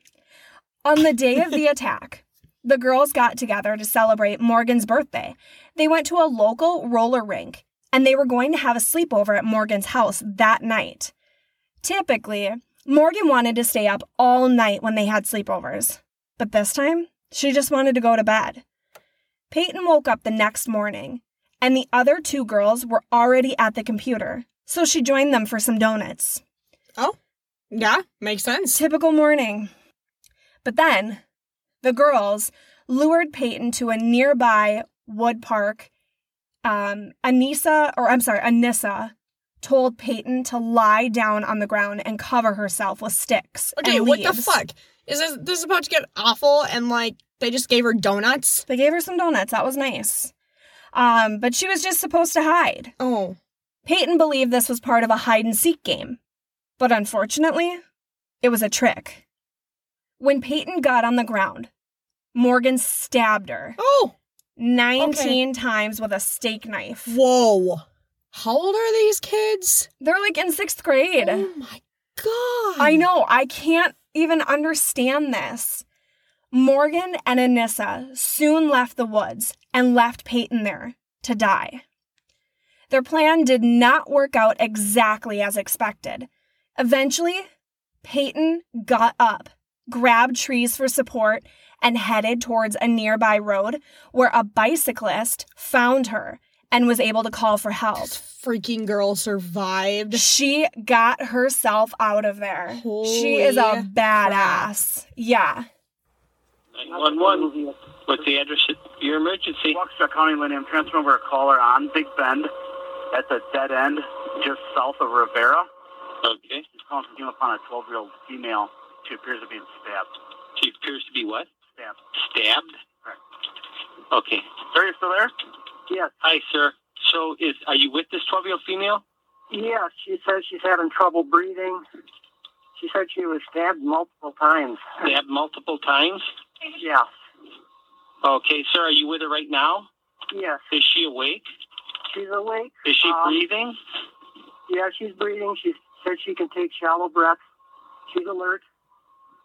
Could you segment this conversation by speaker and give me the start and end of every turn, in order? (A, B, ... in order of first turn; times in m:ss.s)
0:00.8-0:11.1 A
0:11.8-0:18.6 A
0:19.5-0:26.4 A
0:27.7-0:28.8 B
0:28.7-0:29.7 A
0:30.6-0:31.2 A
0:31.8-0:35.9 A
0:36.6-0:44.6 A
0:43.8-0:48.6 B
0:48.7-0:50.3 A
0:50.9-0:52.9 A
0:53.0-0:53.4 B
0:53.8-0:56.2 A
0:56.8-0:57.8 A
0:58.4-0:59.2 A
1:00.2-1:01.7 A
1:02.3-1:03.8 A
1:03.8-1:04.1 B
1:04.6-1:07.2 A
1:05.0-1:05.4 B
1:07.1-1:09.9 B
1:10.0-1:11.5 A
1:11.2-1:13.0 B
1:12.8-1:15.8 A
1:16.5-1:21.8 A
1:22.9-1:27.5 A
1:28.0-1:38.2 A
1:38.0-1:40.2 B
1:40.1-1:45.7 A
1:42.7-1:44.7 B
1:46.7-1:47.5 C
1:46.9-1:47.8 D
1:48.0-1:49.8 C
1:49.7-1:52.5 E
1:53.1-1:55.7 E
1:56.2-1:56.6 C
1:56.7-2:00.1 E
2:00.6-2:01.5 C
2:01.7-2:02.0 E
2:02.2-2:02.7 C
2:04.1-2:04.4 C
2:04.7-2:05.3 E
2:06.2-2:09.0 C
2:09.5-2:11.8 D
2:12.8-2:15.0 D
2:15.0-2:16.2 C
2:16.8-2:17.1 D
2:18.2-2:19.9 C
2:20.3-2:20.6 D
2:20.7-2:21.4 C
2:22.1-2:23.4 D
2:22.8-2:23.8 C
2:24.7-2:27.4 D
2:28.1-2:28.6 D